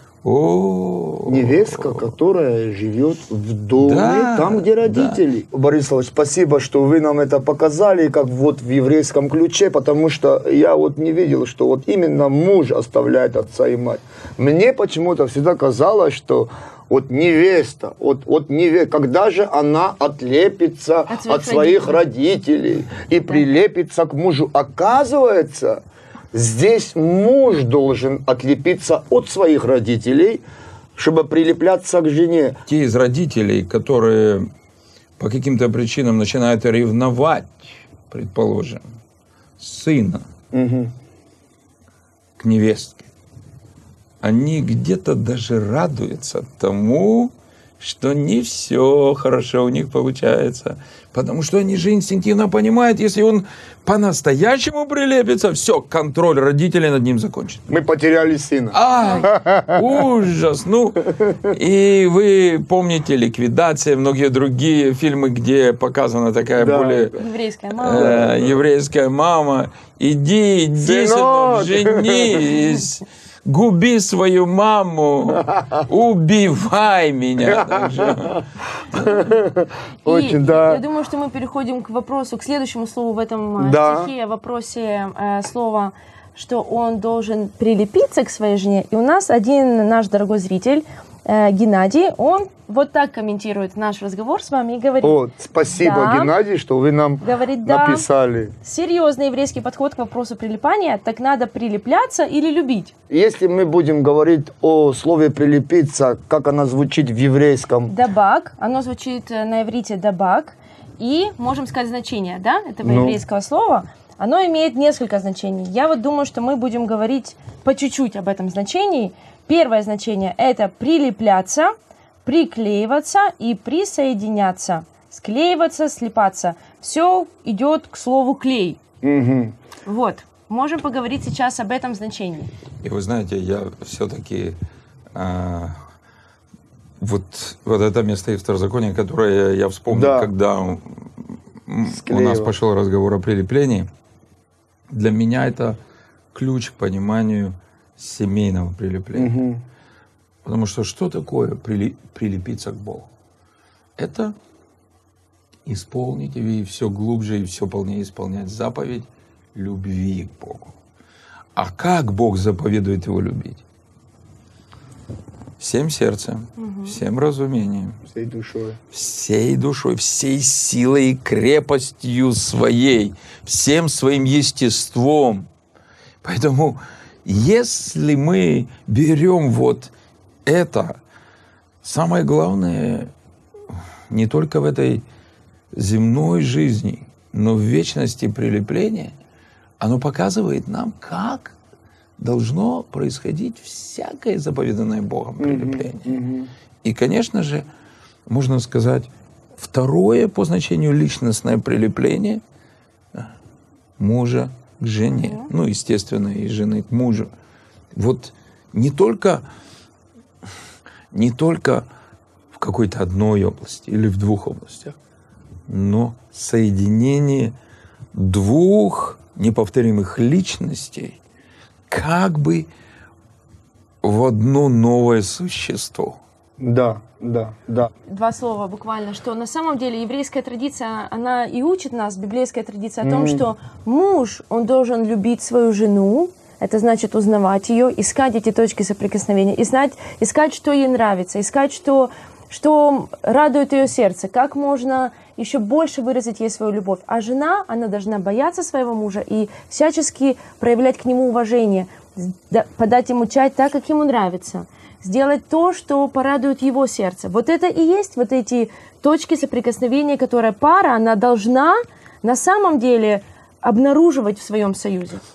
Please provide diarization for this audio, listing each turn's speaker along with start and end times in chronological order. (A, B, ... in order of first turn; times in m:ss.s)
0:00.2-0:02.1 A
0:01.2-0:30.4 B
0:03.7-0:05.2 A
0:21.1-0:22.0 C
0:31.0-0:32.6 B
0:32.6-0:34.5 A
0:35.2-0:38.9 A
0:39.6-0:40.3 A
0:40.5-0:40.9 B
0:42.4-0:43.1 A
0:44.2-0:57.7 A
0:57.7-1:00.0 B
0:58.7-1:18.4 A
0:59.0-0:59.3 C
1:01.2-1:01.5 B
1:06.6-1:07.1 B
1:07.2-1:08.1 C
1:07.9-1:08.6 B
1:10.8-1:12.5 B
1:15.5-1:15.8 B
1:17.5-1:20.8 B
1:20.0-1:36.3 C
1:23.6-1:24.1 B
1:35.0-1:38.5 B
1:37.2-1:38.1 C
1:38.6-1:42.9 C
1:43.1-1:47.9 B
1:47.9-2:01.7 C
1:52.8-1:53.2 B
2:02.2-2:08.8 C
2:09.0-2:09.6 B
2:09.8-2:12.5 C
2:12.8-2:14.6 A
2:15.1-2:15.8 A
2:17.0-2:23.9 A
2:19.9-2:20.3 B
2:21.8-2:22.5 B
2:24.9-2:25.8 A
2:26.3-2:29.3 A
2:29.1-2:29.6 B
2:30.4-2:33.1 A
2:34.0-2:34.3 A
2:35.6-2:40.7 A
2:41.5-2:43.6 A
2:45.6-2:48.0 A
2:46.6-2:47.0 C
2:48.0-2:48.8 B
2:48.9-2:55.5 A
2:56.2-2:59.9 A
3:00.4-3:01.0 A
3:01.8-3:03.1 A
3:04.1-3:05.0 A
3:05.7-3:09.1 A
3:09.8-3:11.5 A
3:12.2-3:16.2 A
3:15.4-3:16.5 B
3:16.8-3:17.6 A
3:18.3-3:22.4 A
3:24.0-3:27.3 A
3:25.2-3:25.5 C
3:27.9-3:29.4 A
3:31.1-3:31.8 A
3:32.5-3:35.0 A
3:35.7-3:37.6 A
3:38.1-3:41.2 A
3:41.9-3:42.7 A
3:44.0-3:46.2 A
3:46.6-3:47.9 B
3:48.1-4:25.2 C
3:53.0-3:53.4 B